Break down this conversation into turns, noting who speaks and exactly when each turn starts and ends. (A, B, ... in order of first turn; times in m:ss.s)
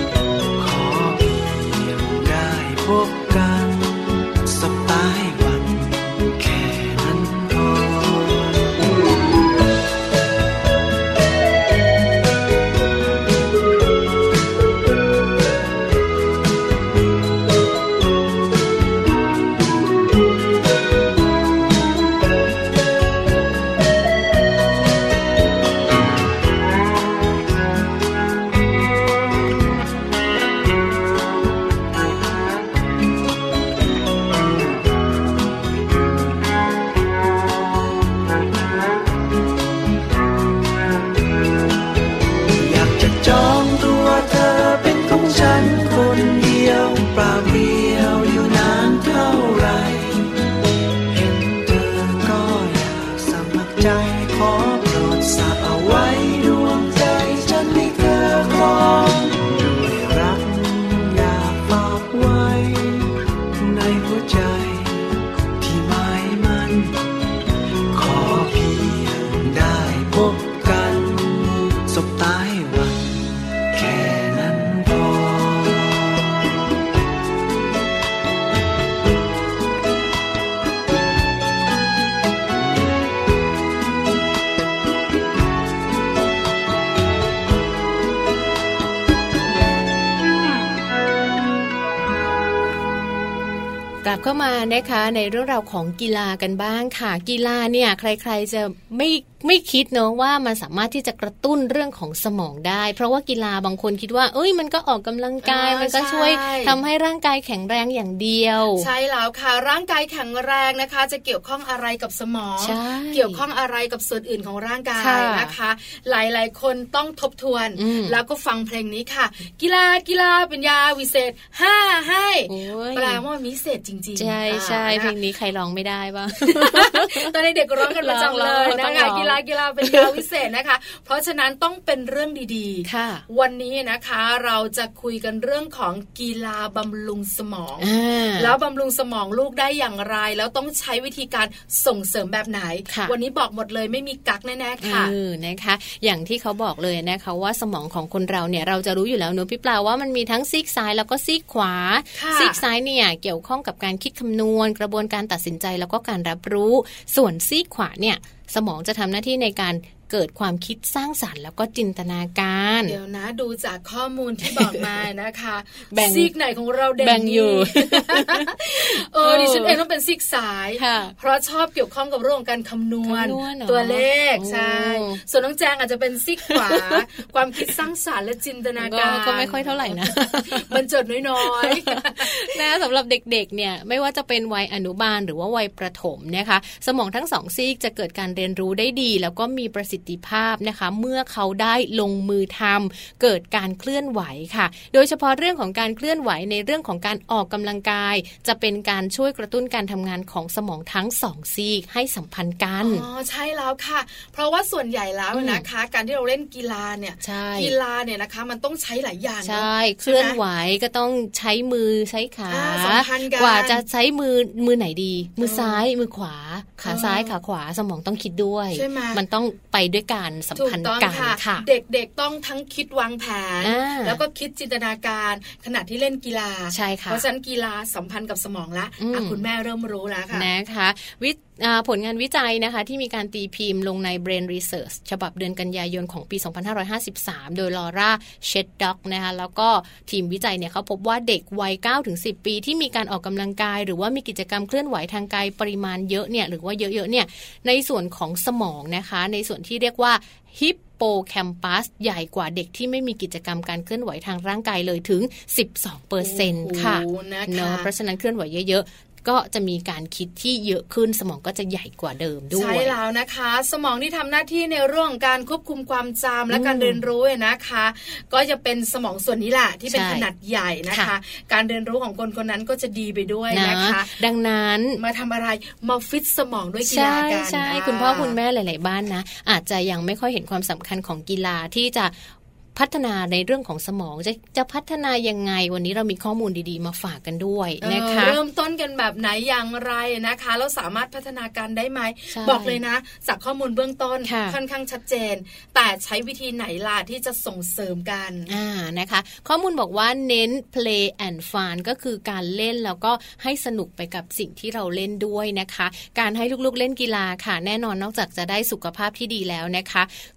0:00.6-0:08.8 A
0:42.6-0:50.4 A
0:51.1-1:07.0 A
1:07.9-1:16.3 A
1:34.0-1:48.9 B
1:45.4-1:46.8 C
1:48.8-2:05.1 C
1:52.6-1:53.4 B
1:55.0-1:55.5 B
1:57.8-1:58.2 B
2:02.5-2:03.2 B
2:04.2-2:10.2 B
2:06.4-2:25.1 C
2:12.8-2:13.2 B
2:17.8-2:18.6 B
2:22.9-2:23.2 B
2:24.8-2:43.0 B
2:32.2-2:32.6 C
2:42.9-3:02.5 C
2:44.4-2:44.8 B
2:45.9-2:46.3 B
2:47.0-2:49.8 B
2:50.8-2:51.2 B
2:53.0-2:55.2 B
2:56.5-2:57.0 B
2:58.8-3:00.8 B
3:01.4-3:23.1 B
3:22.8-3:30.4 C
3:25.3-3:25.7 B
3:27.2-3:27.8 B
3:29.4-3:41.7 B
3:32.5-3:33.8 C
3:35.4-3:35.8 C
3:36.8-3:37.4 C
3:38.7-3:39.2 C
3:40.6-3:50.5 C
3:43.6-3:44.2 B
3:46.7-3:47.2 B
3:49.0-3:49.4 B
3:50.3-4:23.0 B
4:16.2-4:17.9 C
4:22.5-4:34.1 C
4:26.5-4:27.0 B
4:29.9-4:30.3 B
4:30.9-4:31.1 B
4:33.5-4:35.0 B
4:35.0-4:38.4 C
4:36.8-4:42.2 B
4:42.8-4:48.4 B
4:47.8-4:58.5 C
4:52.3-4:52.8 B
4:54.2-4:54.6 B
4:58.5-5:10.1 B